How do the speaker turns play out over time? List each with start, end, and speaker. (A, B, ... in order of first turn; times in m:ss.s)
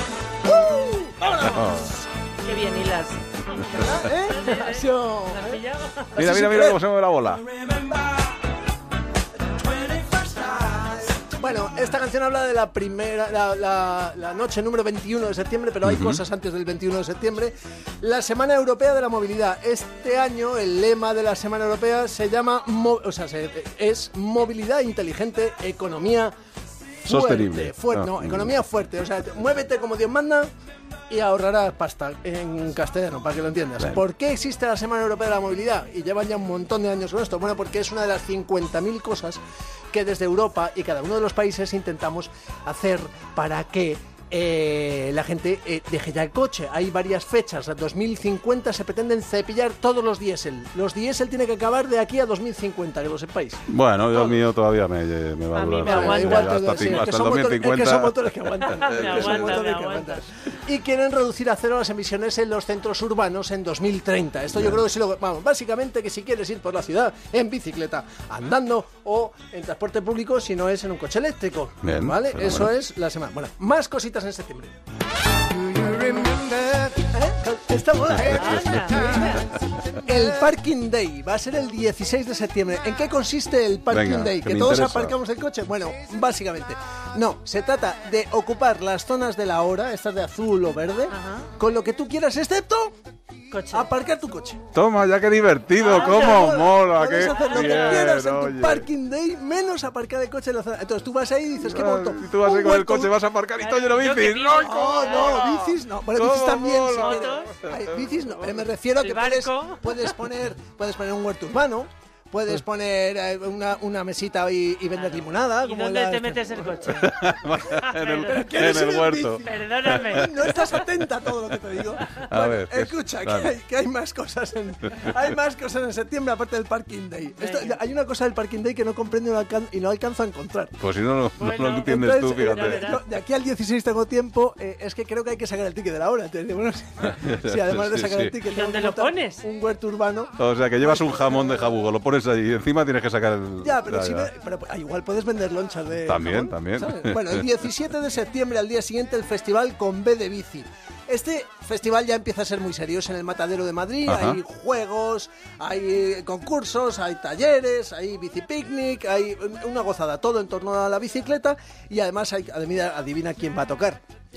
0:00.4-0:02.0 A
0:01.4-0:02.0 B
0:02.4-0:06.2 C
0:03.7-0:05.6 A
0:06.1-0:06.8 A
0:06.2-0:07.4 B
0:09.7-0:26.3 A
0:15.8-0:16.2 B
0:27.0-0:30.5 A
0:27.0-0:28.5 B
0:31.1-0:39.4 A
0:39.9-0:53.6 A
0:53.7-0:59.6 B
0:55.5-0:57.1 C
0:55.8-1:14.7 A
0:58.6-1:00.2 C
1:04.5-1:04.8 B
1:11.8-1:12.7 B
1:15.8-1:32.9 A
1:18.2-1:19.4 C
1:23.9-1:25.1 B
1:31.1-1:31.5 C
1:33.5-1:33.9 C
1:33.7-1:34.6 A
1:34.7-1:38.8 B
1:35.8-1:36.6 C
1:35.8-1:43.1 A
1:37.1-1:38.1 C
1:41.6-1:48.5 B
1:43.6-1:45.5 C
1:44.6-1:57.0 A
1:46.9-1:47.5 C
1:49.0-1:50.2 C
1:54.9-1:58.7 C
1:56.9-2:00.5 B
1:58.2-2:10.8 A
1:59.4-2:00.8 C
2:02.1-2:03.5 B
2:07.4-2:07.8 C
2:10.8-2:12.9 B
2:11.4-2:13.0 C
2:11.8-2:21.7 A
2:17.0-2:18.3 B
2:18.4-2:19.4 C
2:20.4-2:24.3 B
2:23.6-2:44.0 A
2:26.0-2:27.5 B
2:34.0-2:34.4 B